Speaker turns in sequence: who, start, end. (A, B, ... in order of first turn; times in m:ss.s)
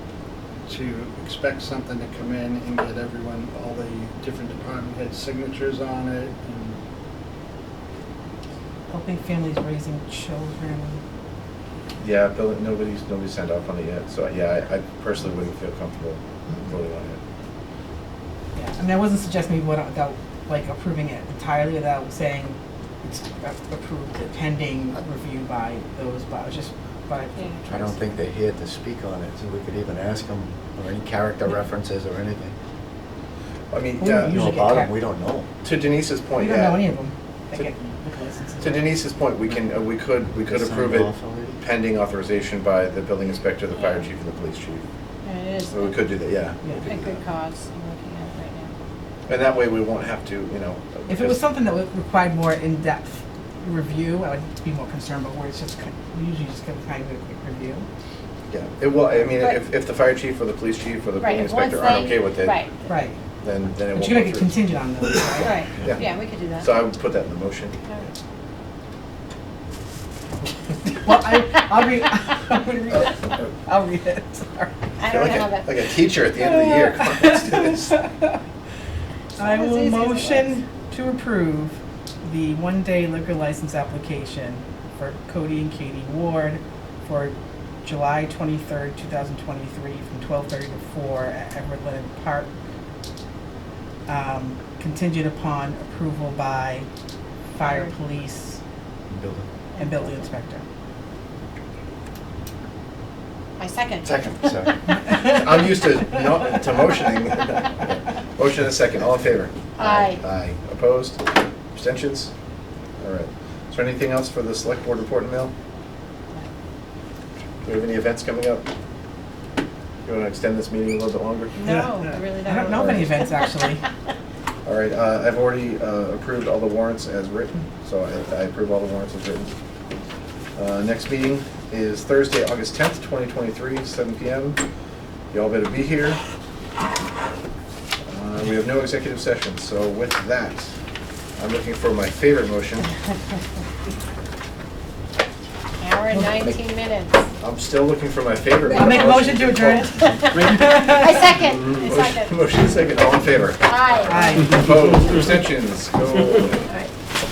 0:00.6-0:06.8 A
0:08.9-0:11.0 B
0:12.0-0:17.2 C
0:18.5-0:28.0 B
0:27.4-0:27.6 D
0:27.7-0:32.5 E
0:33.7-0:34.4 C
0:34.0-0:34.9 B
0:34.3-0:35.5 E
0:35.6-0:36.8 C
0:36.4-0:39.0 B
0:38.6-0:44.8 C
0:40.4-0:41.6 E
0:43.8-0:44.0 D
0:45.2-0:46.0 D
0:45.7-0:47.2 C
0:46.8-0:48.7 D
0:49.2-0:51.4 C
0:51.1-0:57.9 B
0:58.5-1:02.6 C
0:59.4-0:59.6 D
1:01.2-1:02.9 D
1:02.9-1:03.2 B
1:03.4-1:04.6 C
1:03.9-1:05.6 B
1:05.4-1:06.7 D
1:05.4-1:07.8 C
1:11.0-1:14.9 B
1:15.0-1:16.9 D
1:15.0-1:18.0 C
1:16.9-1:18.4 B
1:19.4-1:20.5 D
1:19.4-1:32.5 B
1:34.1-1:36.9 B
1:37.5-1:38.6 B
1:37.6-1:37.9 D
1:39.1-1:39.5 E
1:39.7-1:40.3 D
1:39.8-1:40.6 B
1:43.6-1:44.7 D
1:44.0-1:44.7 E
1:45.0-1:45.3 B
1:45.2-1:52.3 C
1:49.8-1:50.2 D
1:53.0-1:55.5 C
1:57.6-1:58.7 C
2:00.0-2:01.6 C
2:01.6-2:03.8 D
2:01.6-2:01.9 B
2:02.4-2:03.8 B
2:02.8-2:03.0 C
2:04.6-2:09.5 C
2:10.5-2:14.6 C
2:15.3-2:16.2 C
2:18.0-2:20.7 C
2:21.4-2:22.9 C
2:25.8-2:27.2 D
2:26.1-2:26.4 B
2:27.4-2:30.9 C
2:28.6-2:29.2 D
2:28.7-2:31.3 B
2:30.0-2:32.4 D
2:31.8-2:36.7 C
2:33.6-2:34.5 D
2:34.0-2:34.6 B
2:36.7-2:36.9 D